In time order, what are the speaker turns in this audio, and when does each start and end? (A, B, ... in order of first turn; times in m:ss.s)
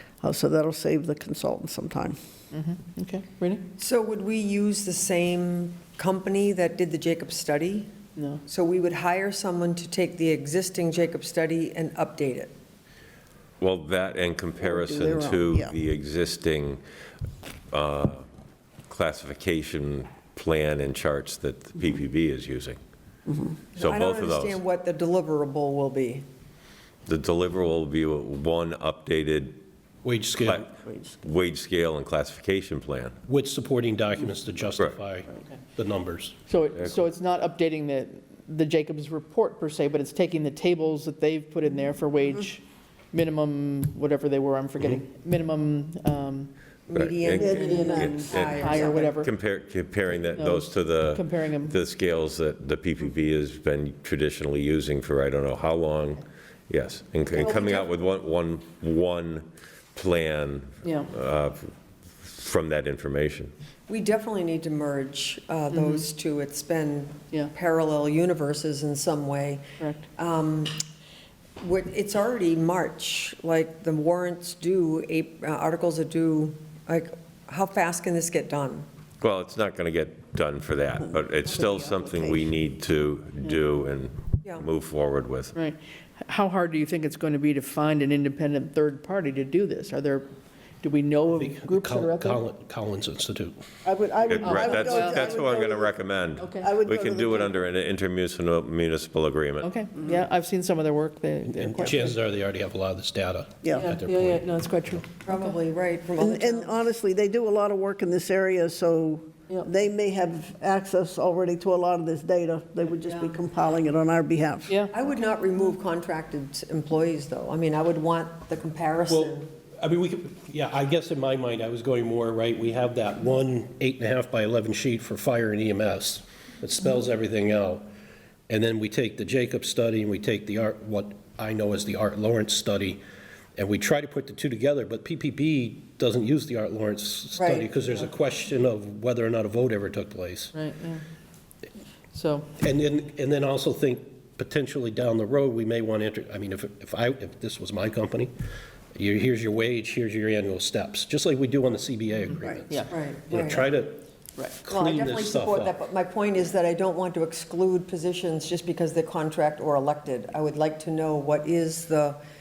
0:00.2-0:02.2 A
0:02.5-0:03.6 B
0:03.8-0:07.9 C
0:08.2-0:08.4 B
0:08.4-0:12.5 C
0:13.6-0:16.8 D
0:14.6-0:15.8 A
0:17.7-0:18.2 D
0:18.9-0:22.8 D
0:23.3-0:23.6 A
0:23.8-0:26.2 C
0:23.8-0:24.6 D
0:27.0-0:29.6 D
0:30.0-0:30.6 E
0:30.4-0:33.2 D
0:30.8-0:31.2 A
0:33.3-0:36.3 E
0:36.5-0:46.5 B
0:46.9-0:49.2 C
0:46.9-1:03.5 D
0:47.3-0:48.3 A
0:47.6-0:49.3 B
0:50.2-0:51.8 B
0:57.4-0:57.8 A
1:00.8-1:01.1 B
1:03.9-1:10.8 C
1:05.7-1:06.0 B
1:11.6-1:18.9 C
1:19.2-1:25.5 D
1:21.4-1:22.5 A
1:25.5-1:30.3 B
1:30.8-1:32.4 B
1:31.4-1:33.6 E
1:33.8-1:36.0 A
1:34.3-1:39.7 D
1:34.4-1:35.3 B
1:36.4-1:36.7 B
1:36.6-1:37.6 A
1:39.6-1:42.2 B
1:41.5-1:44.4 E
1:43.6-1:43.9 A
1:43.7-1:45.5 B
1:45.2-1:46.7 C
1:46.2-1:54.7 A
1:53.0-1:53.4 C
1:54.7-1:54.9 B
1:54.9-1:59.5 C
1:59.1-2:07.9 E
2:08.5-2:13.0 E
2:13.6-2:20.5 E
2:17.3-2:18.1 C
2:20.5-2:21.0 B
2:22.1-2:22.5 B
2:22.6-2:28.3 E
2:28.9-2:34.0 E
2:32.7-2:33.4 B
2:32.9-2:33.7 C
2:34.6-2:35.8 E
2:34.7-2:42.2 C